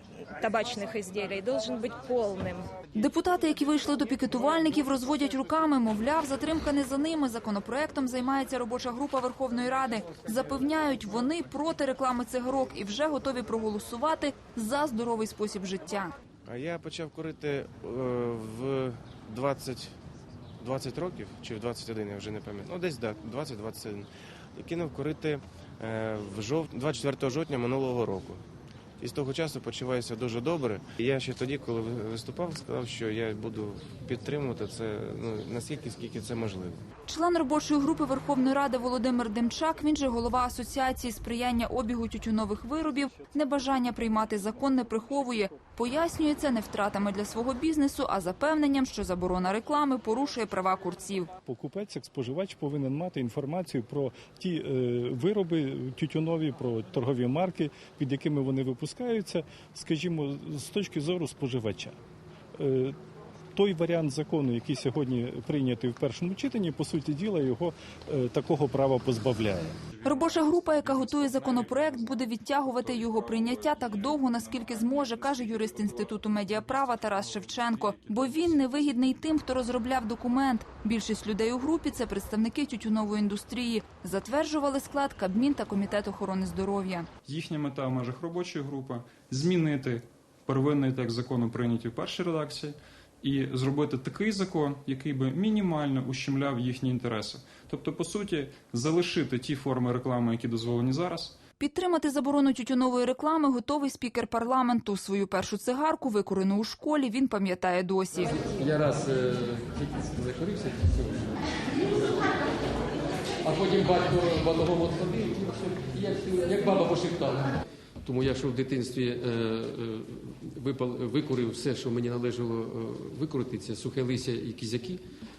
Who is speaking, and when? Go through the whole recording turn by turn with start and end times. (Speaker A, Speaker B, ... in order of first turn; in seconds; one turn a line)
Speaker A: 0.3-2.7
Speaker B: 2.9-16.1
Speaker C: 16.5-19.9
Speaker C: 20.6-28.4
Speaker C: 29.0-36.8
Speaker B: 37.1-51.3
Speaker D: 51.5-62.0
Speaker D: 62.5-63.0
Speaker D: 63.5-69.8
Speaker B: 70.0-87.1
Speaker E: 87.2-101.4
Speaker B: 101.6-108.5
Speaker F: 108.4-111.4
Speaker F: 113.4-125.0